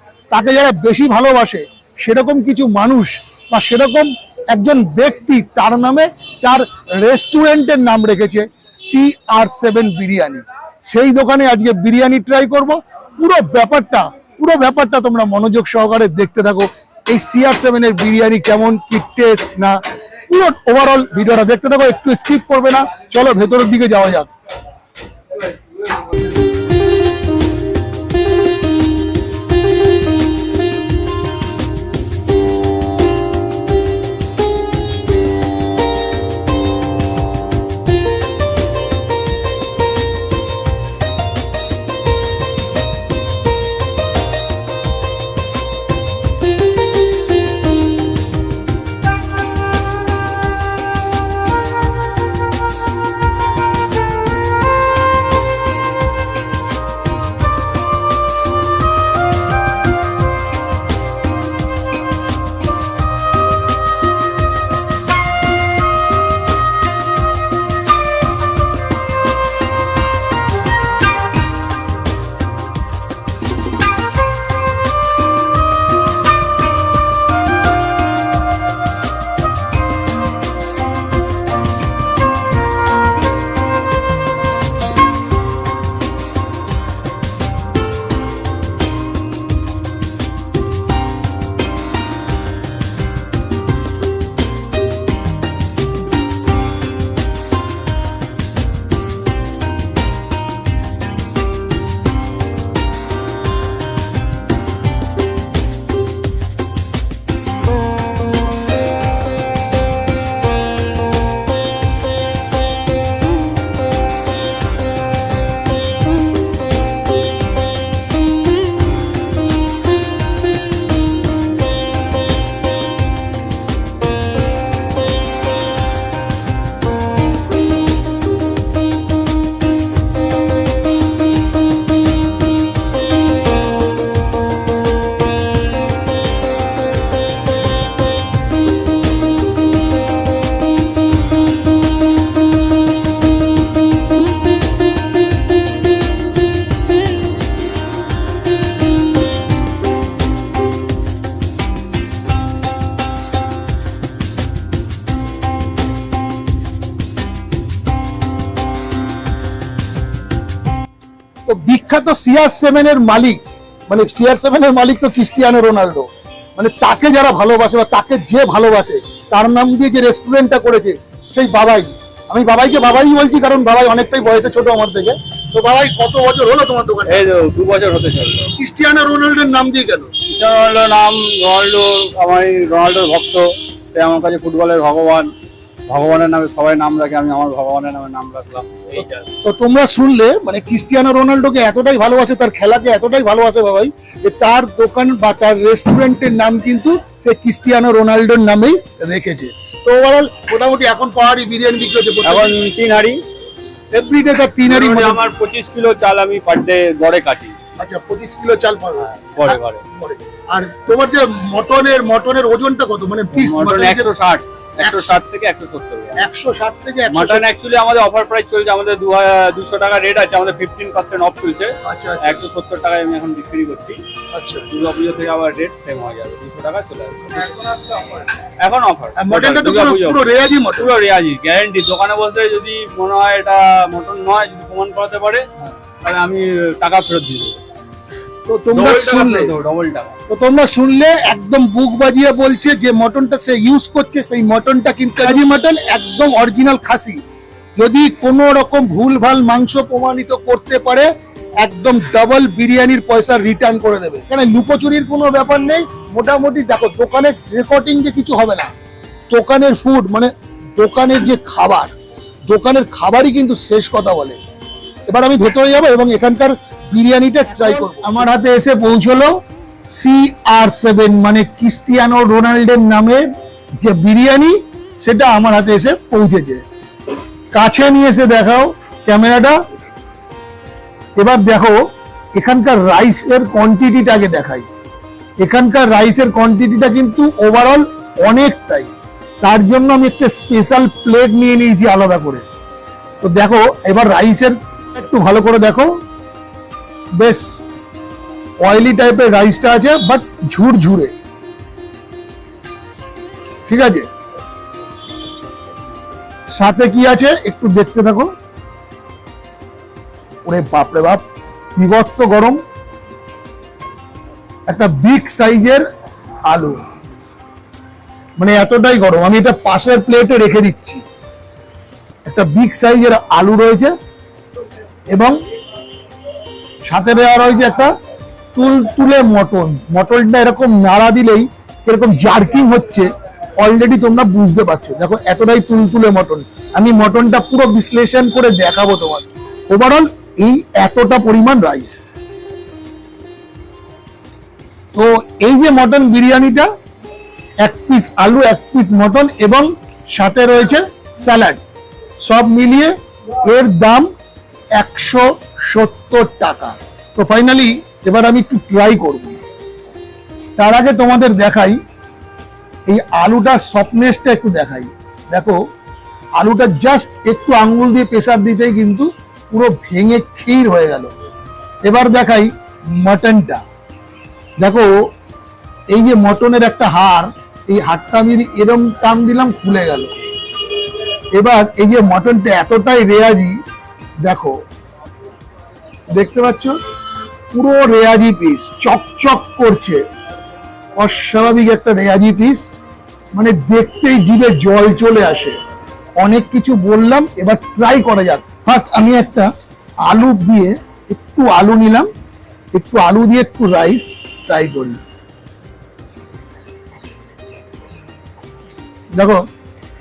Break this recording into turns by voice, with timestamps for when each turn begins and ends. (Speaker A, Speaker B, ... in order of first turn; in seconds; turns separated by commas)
Speaker A: 0.3-24.3, Speaker A: 161.5-177.3, Speaker B: 177.1-178.5, Speaker A: 178.6-180.1, Speaker B: 180.3-185.3, Speaker B: 185.9-189.2, Speaker A: 189.4-202.6, Speaker B: 202.2-203.2, Speaker A: 203.9-205.2, Speaker B: 204.6-207.6, Speaker A: 207.8-214.1, Speaker B: 209.2-209.8, Speaker B: 213.3-216.2, Speaker A: 214.8-215.2, Speaker A: 216.2-217.5, Speaker B: 217.1-224.0, Speaker A: 221.8-222.4, Speaker A: 224.3-224.7, Speaker B: 224.7-235.4, Speaker A: 229.2-230.9, Speaker B: 236.0-237.6, Speaker A: 238.5-239.6, Speaker B: 238.7-240.2, Speaker A: 240.3-247.2, Speaker A: 247.8-251.1, Speaker A: 251.6-258.7, Speaker A: 259.3-261.9, Speaker A: 262.5-264.4, Speaker A: 265.1-276.6, Speaker A: 277.5-279.6, Speaker A: 281.2-281.8, Speaker A: 282.4-284.7, Speaker A: 285.4-292.4, Speaker A: 293.2-295.9, Speaker A: 297.2-297.6, Speaker A: 298.6-301.1, Speaker A: 303.7-304.1, Speaker A: 306.5-308.3, Speaker A: 310.4-311.2, Speaker A: 311.8-312.6, Speaker A: 314.7-315.8, Speaker A: 316.4-316.8, Speaker A: 318.4-321.0, Speaker A: 322.2-323.9, Speaker A: 325.1-325.4, Speaker A: 326.9-327.9, Speaker A: 328.6-342.1, Speaker A: 344.9-346.7, Speaker A: 347.6-351.6, Speaker A: 352.2-354.1, Speaker A: 354.8-359.4, Speaker A: 360.6-361.8, Speaker A: 362.9-365.6, Speaker A: 366.4-371.1, Speaker A: 371.8-373.6, Speaker A: 374.6-374.9, Speaker A: 375.9-380.1, Speaker A: 381.4-383.6, Speaker A: 384.2-384.6, Speaker A: 386.1-386.8, Speaker A: 387.5-390.0, Speaker A: 391.0-392.7, Speaker A: 393.3-395.6, Speaker A: 396.2-399.5, Speaker A: 400.0-402.1, Speaker A: 402.7-405.0, Speaker A: 409.1-409.4